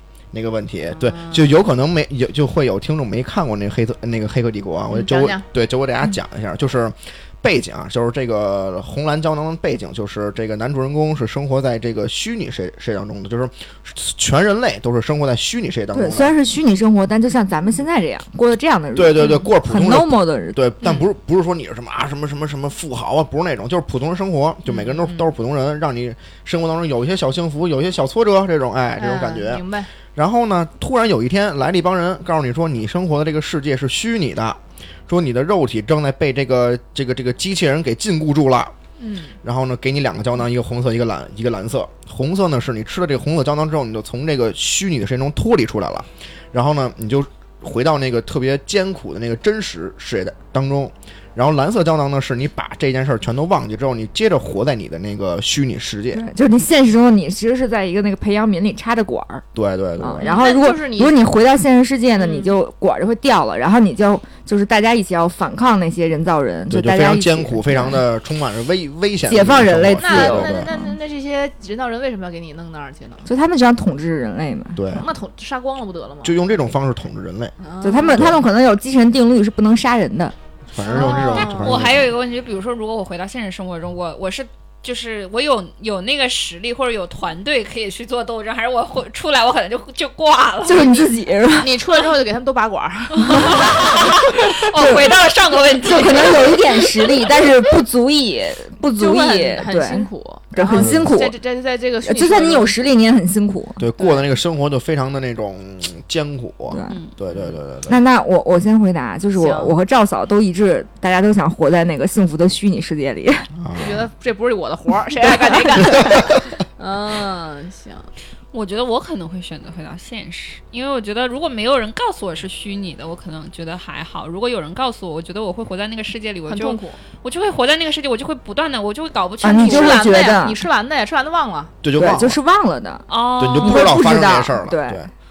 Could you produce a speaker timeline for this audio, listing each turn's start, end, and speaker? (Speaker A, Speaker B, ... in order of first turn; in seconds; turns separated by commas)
Speaker A: 0.3-16.3, Speaker B: 0.9-1.6, Speaker B: 4.9-5.4, Speaker C: 15.9-20.6, Speaker A: 18.9-38.7, Speaker B: 24.6-25.3, Speaker B: 29.0-29.9, Speaker B: 39.0-39.4, Speaker A: 39.4-56.2, Speaker C: 56.1-59.4, Speaker A: 59.5-60.4, Speaker C: 60.0-68.0, Speaker B: 60.2-61.2, Speaker B: 62.2-62.5, Speaker A: 66.7-70.7, Speaker C: 69.3-70.9, Speaker B: 70.0-73.3, Speaker C: 73.2-74.8, Speaker A: 74.8-75.0, Speaker B: 74.9-76.6, Speaker A: 76.2-77.5, Speaker B: 77.6-78.4, Speaker C: 77.8-80.3, Speaker A: 78.1-78.4, Speaker A: 80.7-82.1, Speaker B: 80.8-81.8, Speaker D: 81.0-91.1, Speaker C: 90.6-91.7, Speaker B: 91.6-93.9, Speaker D: 93.2-96.6, Speaker C: 94.7-95.1, Speaker C: 95.8-101.3, Speaker B: 98.9-102.8, Speaker A: 100.7-101.1, Speaker C: 102.0-103.8, Speaker A: 103.8-108.0, Speaker B: 104.0-104.2, Speaker C: 106.7-107.0, Speaker D: 106.9-107.1, Speaker C: 107.9-113.5, Speaker B: 109.3-109.7, Speaker A: 113.6-114.0, Speaker B: 113.7-118.1, Speaker D: 118.5-130.3, Speaker B: 126.5-127.0, Speaker C: 129.4-130.6, Speaker B: 129.5-131.7, Speaker A: 131.8-132.4, Speaker C: 131.9-133.1, Speaker D: 133.1-134.1, Speaker A: 133.4-135.1, Speaker C: 133.6-135.0